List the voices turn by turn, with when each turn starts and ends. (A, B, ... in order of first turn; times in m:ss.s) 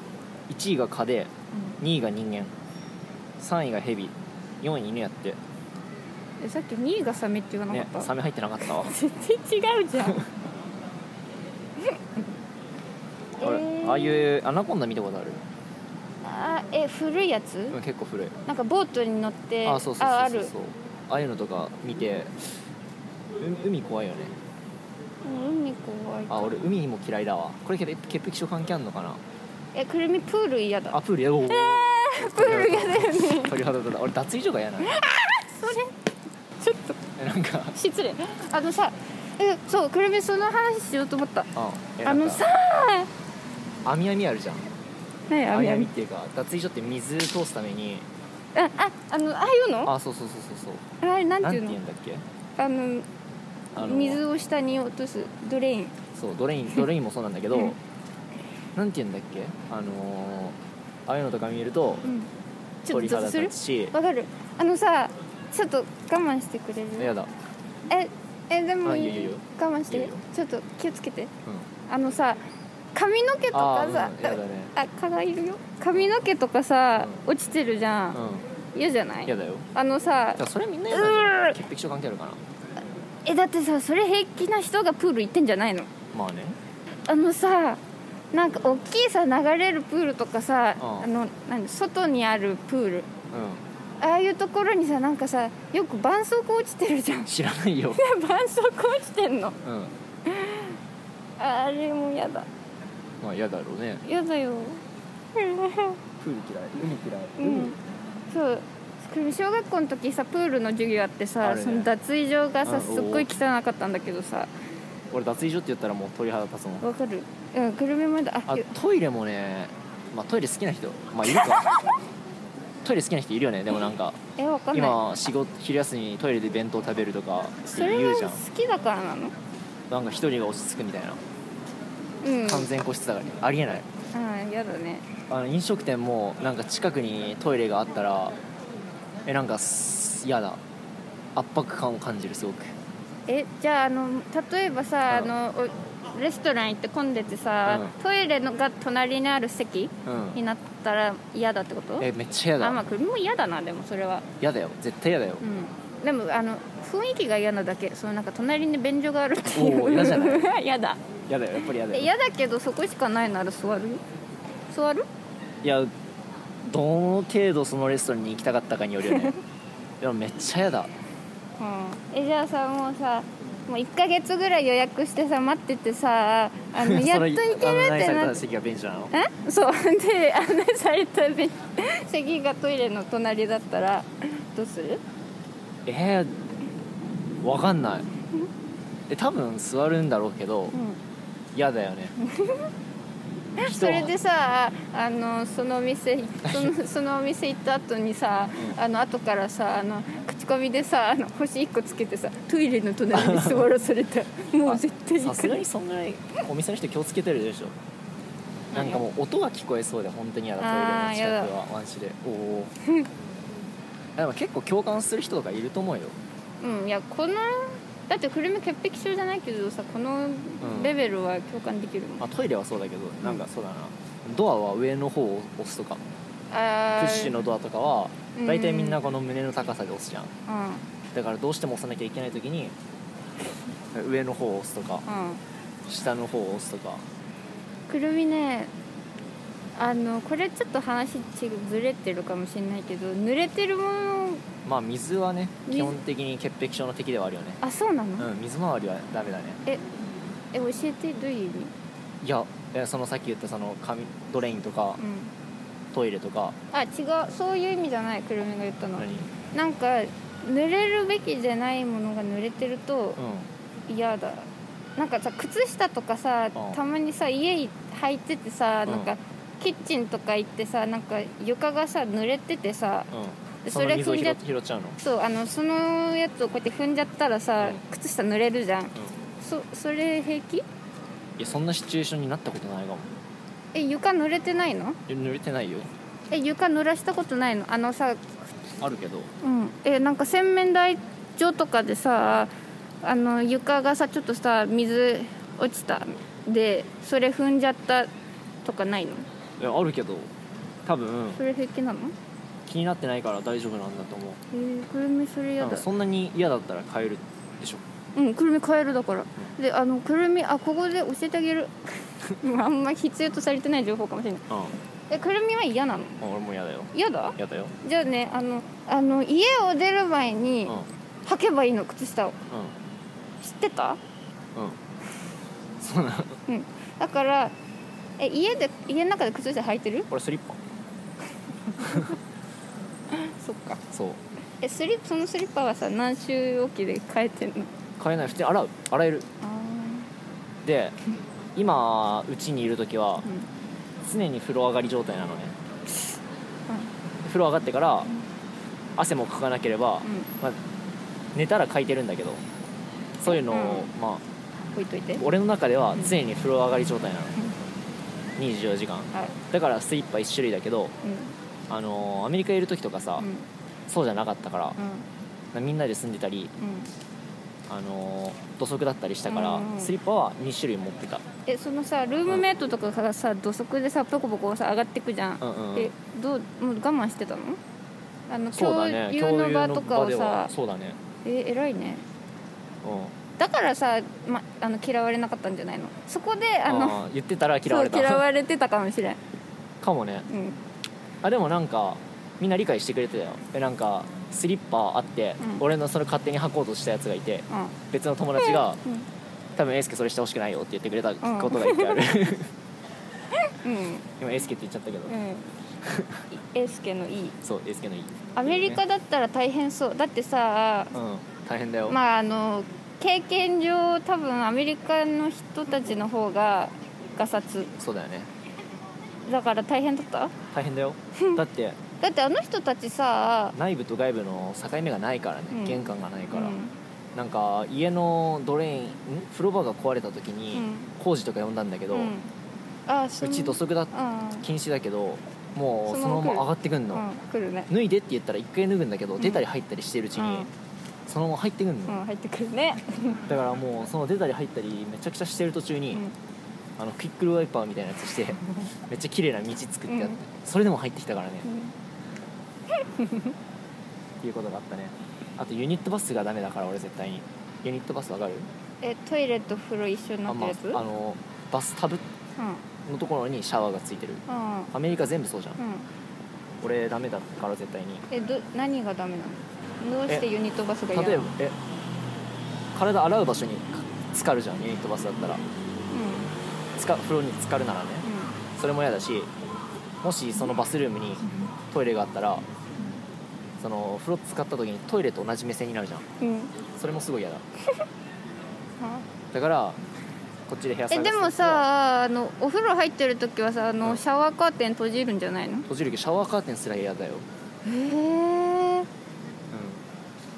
0:00.5-0:02.5 A
0:03.4-0:05.4 A
0:06.4-0:10.2 B
0:07.7-0:08.9 A
0:13.4-0:14.3 B
0:13.4-0:15.4 A
0:16.2-0:17.8 B
0:17.7-0:18.4 A
0:18.4-0:20.5 B
0:19.6-0:22.5 A
0:23.4-0:24.3 A
0:25.2-0:26.6 B
0:26.3-0:29.2 A
0:29.7-0:33.5 B
0:30.9-0:34.9 A
0:34.8-0:35.9 B
0:36.6-0:37.0 B
0:37.2-0:37.7 A
0:37.7-0:41.5 B
0:41.5-0:42.4 A
0:42.0-0:43.1 B
0:43.8-0:44.7 A
0:45.3-0:45.9 B
0:45.5-0:48.1 A
0:48.5-0:49.9 B
0:49.8-0:50.8 A
0:51.0-0:51.8 B
0:51.4-0:52.2 A
0:52.6-0:53.0 B
0:53.7-0:54.2 A
0:53.8-0:55.9 B
0:56.1-0:57.8 A
0:58.7-1:02.0 A
1:02.0-1:02.3 B
1:02.8-1:07.1 B
1:02.9-1:03.9 A
1:07.0-1:07.3 A
1:07.9-1:11.3 B
1:08.8-1:10.2 A
1:11.9-1:12.4 B
1:12.9-1:18.2 B
1:13.5-1:14.7 A
1:15.9-1:16.2 A
1:17.0-1:17.2 A
1:18.1-1:18.4 A
1:18.7-1:21.6 B
1:19.2-1:19.7 A
1:20.4-1:22.4 A
1:23.2-1:25.9 B
1:26.1-1:26.6 A
1:27.1-1:27.8 B
1:28.3-1:33.1 B
1:30.8-1:31.1 A
1:33.3-1:33.6 A
1:34.0-1:37.3 B
1:37.3-1:38.0 A
1:37.9-1:39.6 B
1:39.6-1:39.9 A
1:40.2-1:40.8 B
1:41.4-1:42.5 B
1:43.2-1:44.0 A
1:44.0-1:44.8 B
1:45.3-1:46.0 B
1:46.2-1:47.7 A
1:47.4-1:47.8 B
1:48.3-1:54.5 B
1:51.4-1:51.9 A
1:52.6-1:53.3 A
1:55.1-1:56.8 A
1:56.8-1:58.7 B
1:58.5-2:01.7 A
2:01.3-2:01.9 B
2:02.8-2:04.2 A
2:04.4-2:05.0 B
2:04.7-2:08.4 A
2:07.7-2:09.3 B
2:09.9-2:11.2 A
2:12.2-2:12.7 B
2:12.4-2:13.9 A
2:14.1-2:15.1 B
2:15.3-2:18.4 A
2:19.2-2:20.6 A
2:21.3-2:22.7 A
2:23.3-2:32.1 B
2:27.6-2:27.9 A
2:30.0-2:30.4 A
2:32.0-2:32.8 A
2:32.6-2:34.3 B
2:34.4-2:35.4 A
2:35.4-2:41.0 B
2:39.4-2:40.5 A
2:41.3-2:42.1 A
2:41.9-2:44.0 B
2:44.7-2:45.0 B
2:45.6-2:45.9 A
2:46.6-2:49.4 A
2:49.0-2:49.4 B
2:50.0-2:50.9 A
2:51.6-2:58.4 B
2:56.8-2:59.1 A
2:59.1-3:05.0 B
3:05.8-3:06.4 A
3:07.4-3:08.1 A
3:09.1-3:10.8 A
3:10.7-3:11.0 B
3:11.5-3:12.1 A
3:12.2-3:12.7 B
3:13.6-3:25.6 B
3:13.6-3:14.1 A
3:16.4-3:16.7 A
3:23.1-3:23.7 A
3:24.6-3:27.8 A
3:28.7-3:29.0 B
3:28.7-3:32.7 A
3:30.6-3:31.5 B
3:34.2-3:36.2 A
3:36.6-3:42.3 B
3:40.6-3:40.9 A
3:42.2-3:46.0 A
3:46.5-3:47.4 B
3:47.0-3:50.3 A
3:48.3-3:49.0 B
3:50.5-3:50.8 B
3:51.1-3:52.7 A
3:53.9-3:55.0 A
3:55.0-3:55.4 B
3:55.8-3:57.0 A
3:57.9-3:58.7 B
3:59.8-4:04.4 B
4:04.6-4:07.6 A
4:05.7-4:06.0 B
4:07.6-4:08.3 B
4:08.2-4:09.6 A
4:10.5-4:11.7 B
4:12.2-4:15.0 A
4:15.0-4:15.3 B
4:15.9-4:16.6 A
4:16.7-4:23.2 B
4:19.0-4:19.3 A
4:23.2-4:23.5 A
4:23.9-4:33.1 B
4:28.8-4:29.1 A
4:33.1-4:35.0 A
4:33.6-4:34.4 B
4:35.0-4:40.6 B
4:41.4-4:43.1 A
4:43.7-4:45.0 B
4:45.1-4:45.9 A
4:46.3-4:48.5 B
4:48.8-4:49.3 A
4:49.4-4:52.5 B
4:53.0-4:58.1 B
4:58.6-4:59.3 B
4:59.6-5:00.3 A
5:00.8-5:01.4 A
5:01.4-5:02.1 B
5:02.6-5:04.4 A
5:04.5-5:05.9 B
5:05.6-5:07.8 A
5:08.1-5:14.5 B
5:14.5-5:14.8 A
5:15.1-5:16.2 B
5:16.2-5:17.7 A
5:16.9-5:22.4 B
5:23.4-5:24.0 B
5:25.8-5:26.4 A
5:26.5-5:27.5 B
5:28.2-5:30.1 B
5:30.1-5:30.6 A
5:31.7-5:32.1 B
5:31.8-5:32.1 A
5:33.1-5:33.8 B
5:33.9-5:34.2 A
5:34.6-5:37.7 B
5:38.0-5:39.3 A
5:39.4-5:40.1 B
5:40.6-5:41.0 A
5:41.5-5:43.3 A
5:44.0-5:45.6 A
5:47.2-5:48.1 A
5:49.0-5:50.6 A
5:50.0-5:50.3 B
5:51.3-5:52.4 A
5:53.2-5:54.2 A
5:53.2-5:53.9 B
5:54.7-5:55.2 B
5:55.2-5:57.4 A
5:58.4-6:00.9 A
6:01.0-6:01.3 B
6:01.7-6:03.2 A
6:03.2-6:03.5 B
6:03.9-6:04.8 A
6:04.8-6:05.0 B
6:05.5-6:06.5 A
6:06.6-6:06.9 B
6:07.7-6:11.2 A
6:09.3-6:09.9 B
6:11.4-6:17.6 B
6:15.4-6:15.9 A
6:18.3-6:20.5 B
6:18.5-6:21.0 A
6:21.2-6:22.0 B
6:22.8-6:23.1 A
6:23.4-6:27.0 B
6:26.6-6:28.2 A
6:27.6-6:29.2 B
6:29.8-6:30.3 A
6:30.3-6:30.6 B
6:31.2-6:38.8 A
6:37.5-6:37.8 B
6:38.4-6:39.0 B
6:39.6-6:42.5 A
6:41.2-6:42.0 B
6:43.4-6:44.1 B
6:44.2-6:45.1 A
6:45.1-6:45.5 B
6:45.8-6:46.2 A
6:46.3-6:47.4 B
6:47.4-6:48.8 A
6:48.3-6:50.9 B
6:50.9-6:52.0 A
6:51.9-6:57.7 B
6:57.8-6:58.3 A
6:59.2-7:00.3 B
7:00.5-7:01.8 A
7:01.2-7:01.4 B
7:02.0-7:03.6 B
7:03.5-7:06.6 A
7:05.5-7:06.7 B
7:07.1-7:12.1 A
7:10.5-7:10.9 B
7:11.9-7:12.3 B
7:12.9-7:14.5 B
7:13.2-7:17.0 A
7:15.9-7:17.7 B
7:17.7-7:20.5 A
7:19.2-7:19.4 B
7:20.2-7:20.5 B
7:21.0-7:22.0 A
7:21.9-7:23.2 B
7:23.3-7:26.0 A
7:26.8-7:31.5 A
7:29.9-7:30.2 B
7:31.4-7:31.7 B
7:32.7-7:33.3 B
7:34.2-7:38.5 A
7:38.8-7:40.8 B
7:40.3-7:42.0 A
7:42.4-7:42.6 B
7:42.8-7:45.6 A
7:44.3-7:44.7 B
7:45.6-7:45.9 B
7:46.6-7:48.0 A
7:48.1-7:51.3 B
7:50.9-7:51.6 A
7:52.7-7:55.4 A
7:55.9-7:56.3 B
7:56.8-7:59.3 A
7:58.0-7:58.4 B
8:00.0-8:02.4 A
8:03.6-8:06.0 A
8:06.2-8:06.5 B
8:06.7-8:07.4 A
8:08.8-8:09.0 B
8:09.3-8:09.8 A
8:10.5-8:11.6 A
8:10.9-8:15.7 B
8:15.7-8:17.2 A
8:17.6-8:18.9 B
8:19.5-8:19.8 A